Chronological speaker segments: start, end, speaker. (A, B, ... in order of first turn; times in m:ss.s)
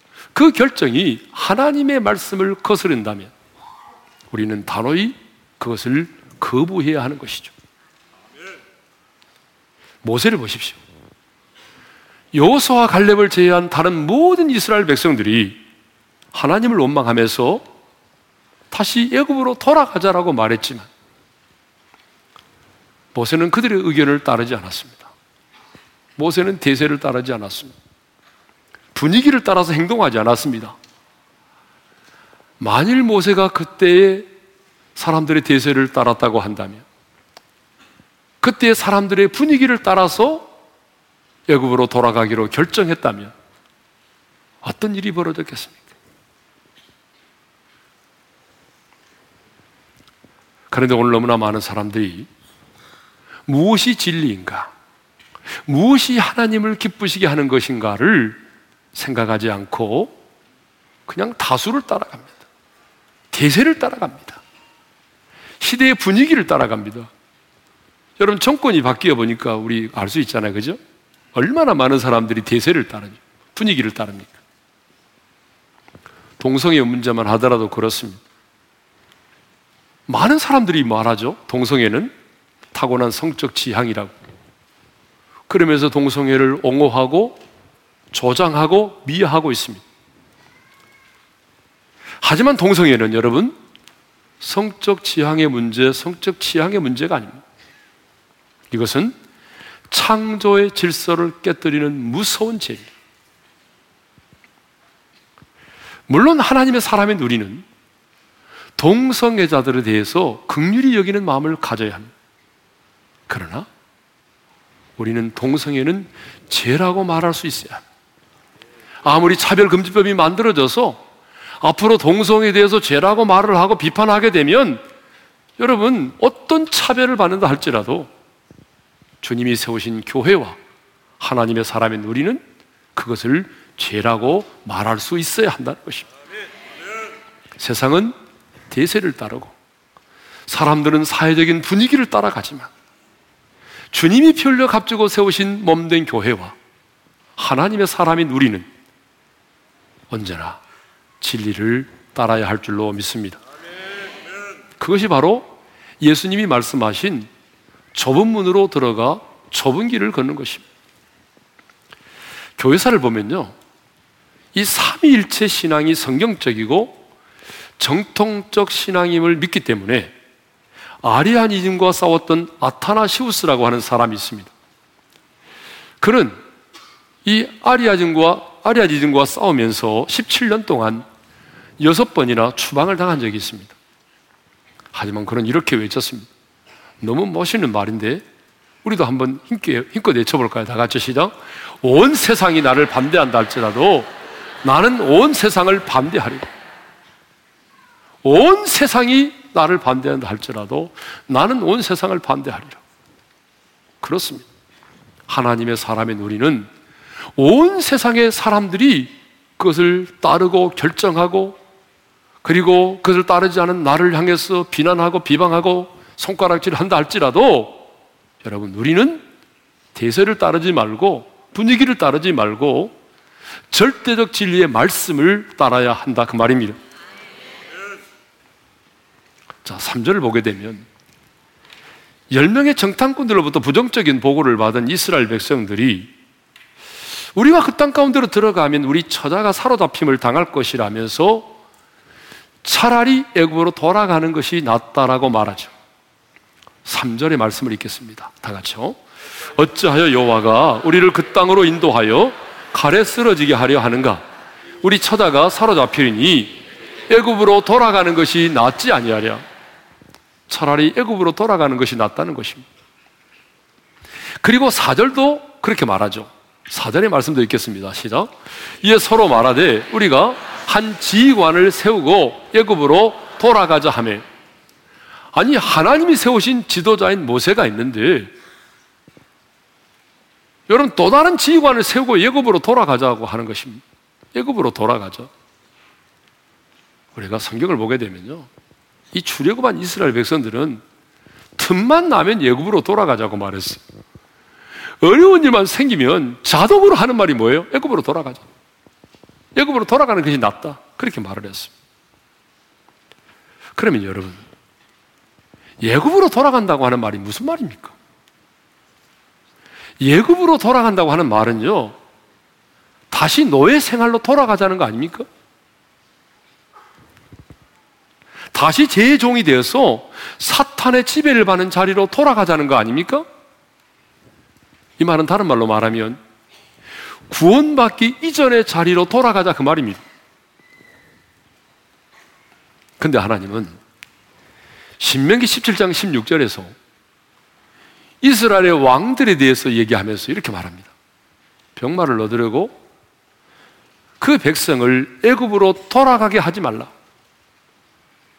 0:00.3-0:03.3 A
0:04.3-0:07.5 A
0:10.0-0:10.8 A
0:12.3-0:15.6 A
0:16.3-0:17.6 A
0:18.7-0:20.9 A
0:23.1-0:25.1 A
0:26.2-0:27.7 A
0:29.0-0:30.8 A
0:32.6-0:34.3 A
0:35.0-0:36.8 A
0:38.4-0:40.5 A
0:41.5-0:43.3 A
0:44.6-0:45.8 A
0:50.7-0:52.3 A
0:53.5-0:54.7 A
0:55.6-0:58.4 A
0:58.9-1:00.1 A
1:01.1-1:02.4 A
1:03.3-1:04.4 A
1:05.6-1:07.1 A
1:08.2-1:10.8 A
1:11.3-1:14.4 A
1:16.4-1:18.2 A
1:20.1-1:22.1 A
1:22.7-1:24.2 A
1:25.5-1:27.4 A
1:28.1-1:29.8 A
1:32.2-1:33.5 A
1:34.4-1:37.4 A
1:38.7-1:39.2 A
1:39.9-1:42.9 A
1:46.1-1:47.7 A
1:48.8-1:52.1 A
1:53.3-1:53.7 A
1:55.0-1:57.8 A
1:59.0-2:01.0 A
2:01.6-2:04.8 A
2:05.6-2:08.1 A
2:09.2-2:10.6 A
2:11.2-2:12.4 A
2:12.9-2:16.1 A
2:17.6-2:18.2 A
2:18.7-2:19.6 A
2:20.5-2:22.7 A
2:23.9-2:26.6 A
2:27.4-2:28.7 A
2:30.1-2:30.6 A
2:31.2-2:33.4 A
2:34.8-2:37.3 A
2:37.9-2:40.6 A
2:42.6-2:43.6 A
2:44.5-2:47.0 A
2:47.8-2:50.1 A
2:51.0-2:54.5 A
2:56.0-2:56.4 A
2:57.2-3:01.1 A
3:01.8-3:03.8 A
3:04.9-3:06.3 A
3:07.0-3:08.2 A
3:08.8-3:14.1 A
3:14.6-3:16.5 A
3:18.2-3:22.8 A
3:24.0-3:24.5 A
3:25.3-3:26.7 A
3:27.4-3:31.6 A
3:32.4-3:37.8 A
3:38.4-3:39.2 A
3:39.9-3:43.0 A
3:43.7-3:46.8 A
3:49.6-3:50.9 A
3:52.3-3:56.1 A
3:57.4-4:01.5 A
4:02.6-4:05.7 A
4:06.8-4:09.0 A
4:09.5-4:14.2 A
4:14.8-4:19.4 A
4:20.5-4:22.7 A
4:24.4-4:34.2 A
4:35.3-4:38.3 A
4:40.7-4:43.8 A
4:44.3-4:45.3 A
4:47.1-4:48.5 A
4:49.1-4:50.8 A
4:51.6-4:53.8 A
4:55.0-4:58.4 A
4:59.6-5:01.7 A
5:03.8-5:04.4 A
5:05.8-5:08.0 A
5:10.0-5:12.0 A
5:13.1-5:15.3 A
5:18.5-5:23.2 A
5:25.0-5:26.2 A
5:27.3-5:30.0 A
5:33.0-5:33.8 A
5:35.0-5:36.7 A
5:38.2-5:40.9 A
5:41.8-5:42.8 A
5:44.2-5:46.9 A